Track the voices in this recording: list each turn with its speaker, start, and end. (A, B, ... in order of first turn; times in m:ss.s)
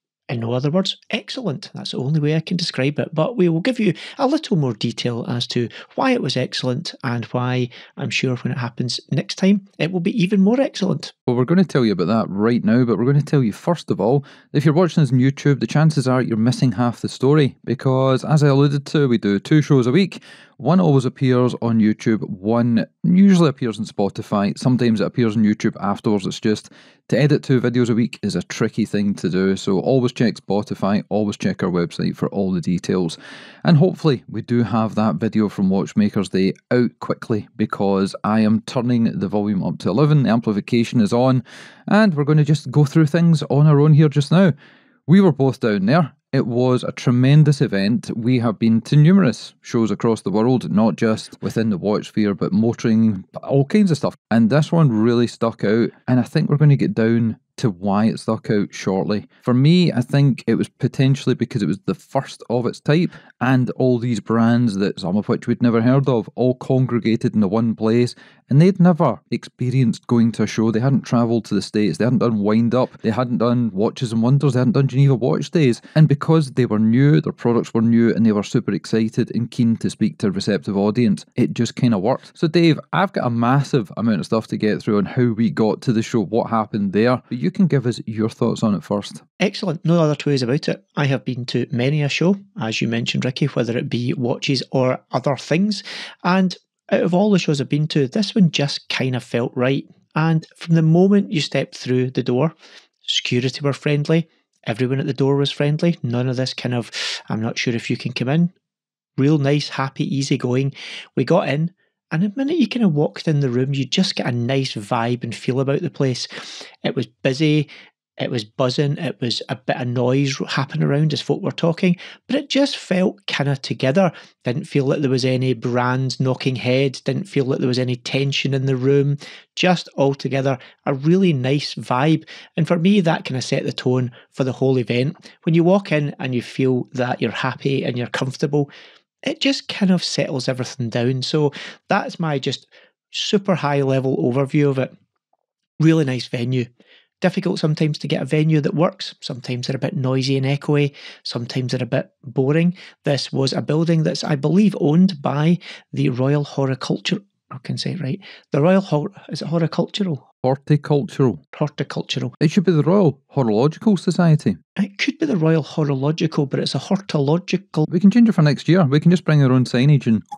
0:00.3-0:11.1 A
0:11.3-0:44.5 B
0:45.1-1:29.2 B
1:29.4-1:48.5 A
1:49.2-1:57.7 A
1:58.2-2:18.7 A
2:19.2-2:24.9 A
2:25.8-2:26.7 A
2:27.2-2:40.2 A
2:40.4-2:41.4 B
2:41.5-2:42.3 A
2:42.4-2:44.6 B
2:44.8-2:47.8 A
2:47.9-2:50.2 B